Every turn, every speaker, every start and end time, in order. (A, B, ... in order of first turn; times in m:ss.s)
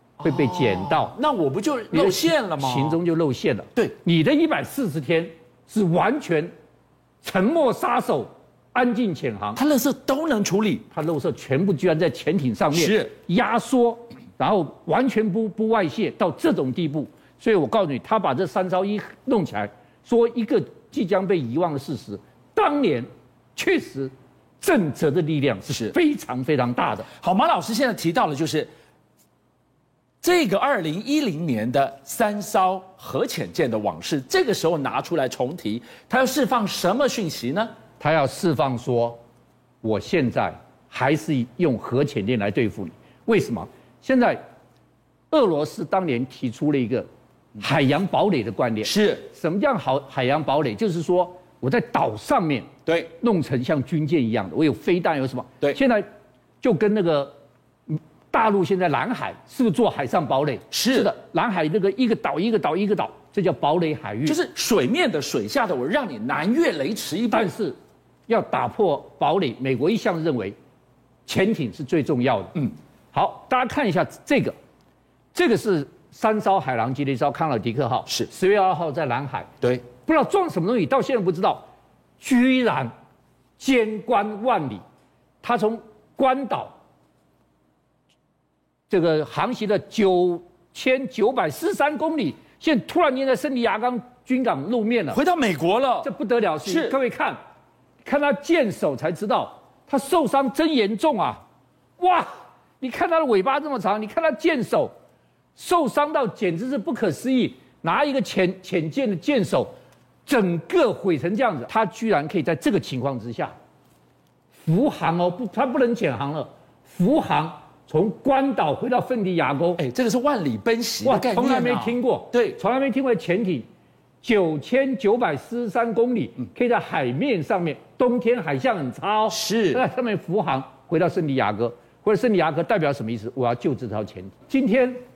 0:00.2-0:03.0 A
0:00.2-0:01.2 B
0:01.9-0:06.5 B
0:07.2-0:09.6 B
0:09.6-0:10.9 A
0:10.9-0:27.1 B
0:12.8-0:13.2 A
0:25.7-0:26.0 A
0:27.1-0:28.7 A
0:30.2-0:37.8 A
0:37.9-0:39.2 B
0:39.8-0:44.4 B
0:45.3-0:47.1 B
0:47.6-0:56.0 B
0:48.8-0:49.3 A
0:52.9-0:53.1 A
0:56.6-0:57.4 B
0:57.9-1:04.4 B
1:00.7-1:01.1 A
1:04.2-1:07.5 A
1:07.3-1:07.8 B
1:08.3-1:10.6 B
1:11.3-1:14.6 B
1:15.3-1:21.7 B
1:22.2-1:22.9 B
1:23.6-1:24.8 B
1:25.4-1:26.8 B
1:28.9-1:35.2 B
1:35.1-1:36.1 A
1:36.0-1:37.4 B
1:36.6-1:37.0 A
1:38.0-1:41.4 B
1:42.0-1:44.9 B
1:45.6-1:49.7 B
1:50.3-1:53.6 B
1:54.6-1:59.8 B
1:59.8-2:02.6 A
2:01.0-2:03.7 B
2:04.2-2:15.0 B
2:09.3-2:09.8 A